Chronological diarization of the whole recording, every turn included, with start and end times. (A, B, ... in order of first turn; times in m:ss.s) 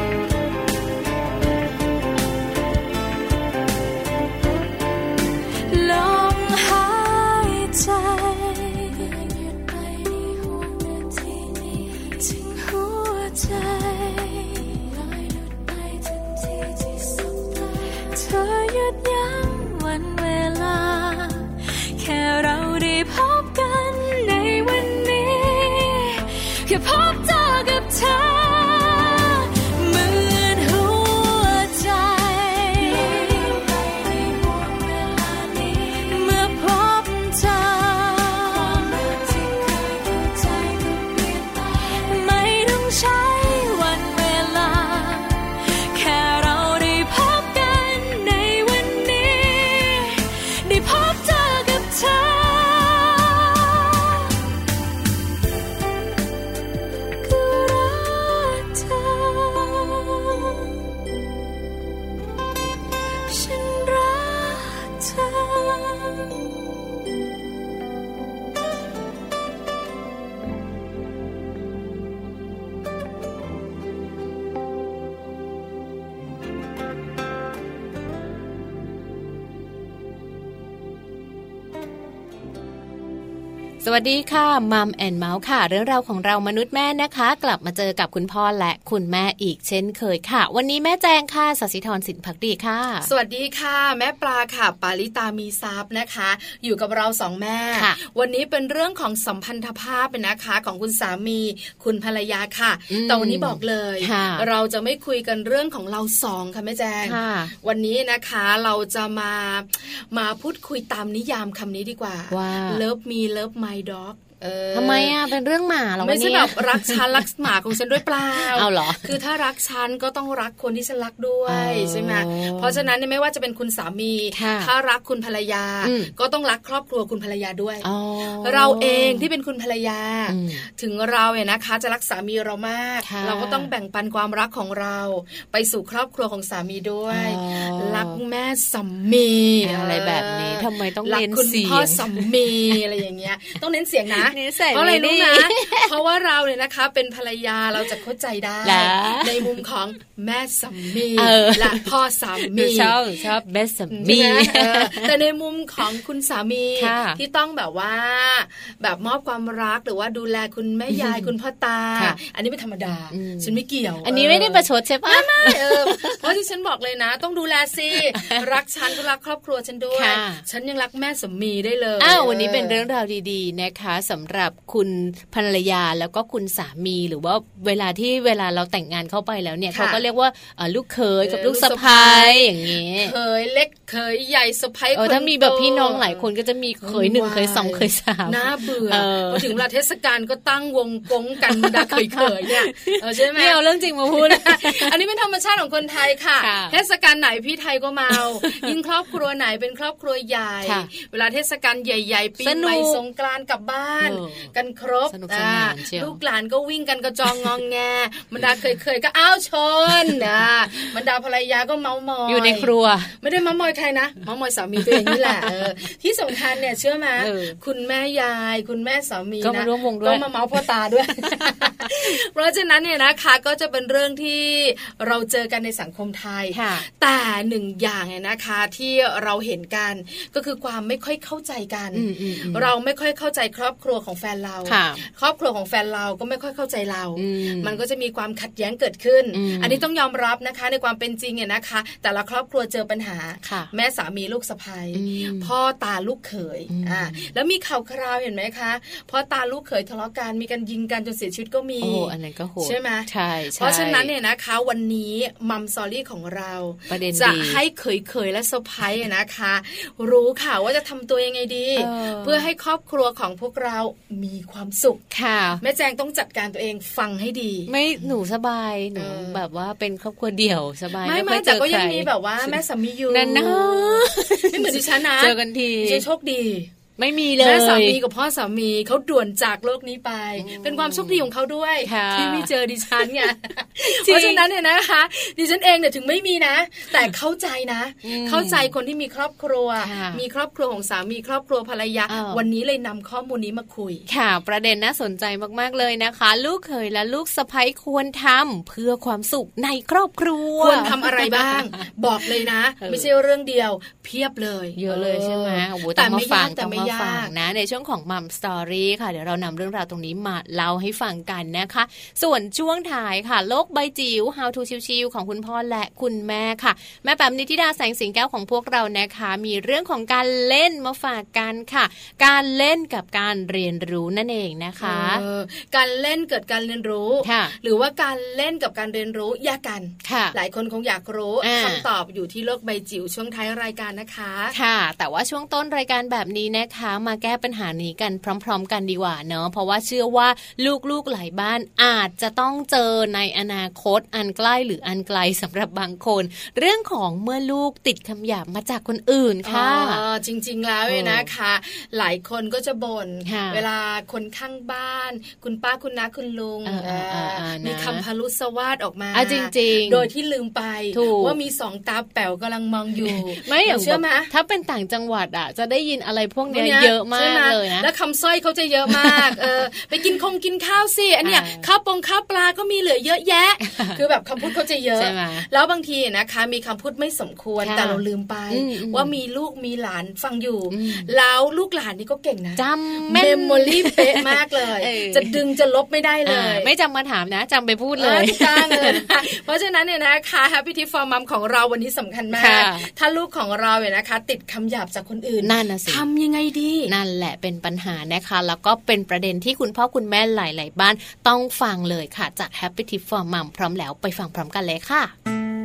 0:05.7-0:54.3 A
0:57.2-1:00.7 A
1:03.3-1:06.3 A
1:23.8-1:33.1 B
1:33.0-1:55.2 C
1:42.9-1:44.5 B
1:47.0-1:47.5 B
1:52.3-1:52.8 B
1:54.7-1:57.3 B
1:56.0-2:07.9 C
1:58.4-1:59.2 B
2:01.5-2:02.9 B
2:04.3-2:04.7 B
2:05.8-2:06.1 B
2:07.8-2:09.3 B
2:08.4-2:33.0 C
2:10.3-2:10.6 B
2:13.0-2:13.7 B
2:17.1-2:18.2 B
2:19.6-2:22.8 B
2:24.2-2:25.9 B
2:28.6-2:29.6 B
2:31.2-2:35.1 B
2:33.9-2:52.8 C
2:36.8-2:37.2 B
2:40.9-2:41.3 B
2:43.1-2:46.2 B
2:48.1-2:48.5 B
2:49.9-2:50.4 B
2:52.0-3:03.2 B
2:59.7-3:00.0 C
3:01.2-3:06.2 C
3:05.0-3:09.6 B
3:06.8-4:25.0 C
3:11.5-3:15.0 B
3:16.4-3:16.8 B
3:18.1-3:18.7 B
3:20.6-3:20.9 B
3:22.4-3:23.0 B
3:24.0-3:24.5 B
3:25.1-3:26.2 B
3:32.3-3:33.1 B
3:34.8-3:35.7 B
3:37.2-3:37.6 B
3:39.4-3:40.3 B
3:41.2-3:42.1 B
3:46.5-3:46.8 B
3:51.9-3:52.7 B
3:54.7-3:55.0 B
3:57.2-3:57.8 B
3:59.3-3:59.8 B
4:03.4-4:03.7 B
4:04.9-4:05.5 B
4:06.7-4:07.3 B
4:11.8-4:14.1 B
4:16.9-4:17.6 B
4:21.8-4:22.5 B
4:25.1-4:25.6 B
4:25.6-4:27.7 C
4:27.7-4:36.0 B
4:29.0-4:29.4 C
4:31.0-4:36.7 C
4:37.0-4:38.0 B
4:37.4-4:54.1 C
4:40.4-4:41.3 B
4:41.8-4:44.4 B
4:48.0-4:48.7 B
4:49.8-4:50.2 B
4:52.1-4:52.4 B
4:54.1-5:01.6 B
5:00.6-5:07.3 C
5:02.8-5:03.1 B
5:04.8-5:25.2 B
5:24.8-5:34.6 C
5:27.2-5:27.6 B
5:30.0-5:30.4 B
5:31.4-5:31.9 B
5:34.5-5:50.0 B
5:49.4-6:04.3 C
5:50.9-5:51.3 B
5:53.3-5:53.6 B
5:56.6-5:58.0 B
5:59.1-6:00.1 B
6:00.9-6:01.4 B
6:03.0-6:07.9 B
6:06.5-6:26.7 C
6:08.9-6:09.4 B
6:11.2-6:11.7 B
6:13.6-6:14.0 B
6:15.0-6:15.5 B
6:17.6-6:19.2 B
6:20.7-6:21.1 B
6:22.6-6:25.4 B
6:26.3-6:29.2 B
6:28.0-6:37.0 C
6:32.3-6:32.9 B
6:35.4-6:36.1 B
6:36.9-6:45.1 B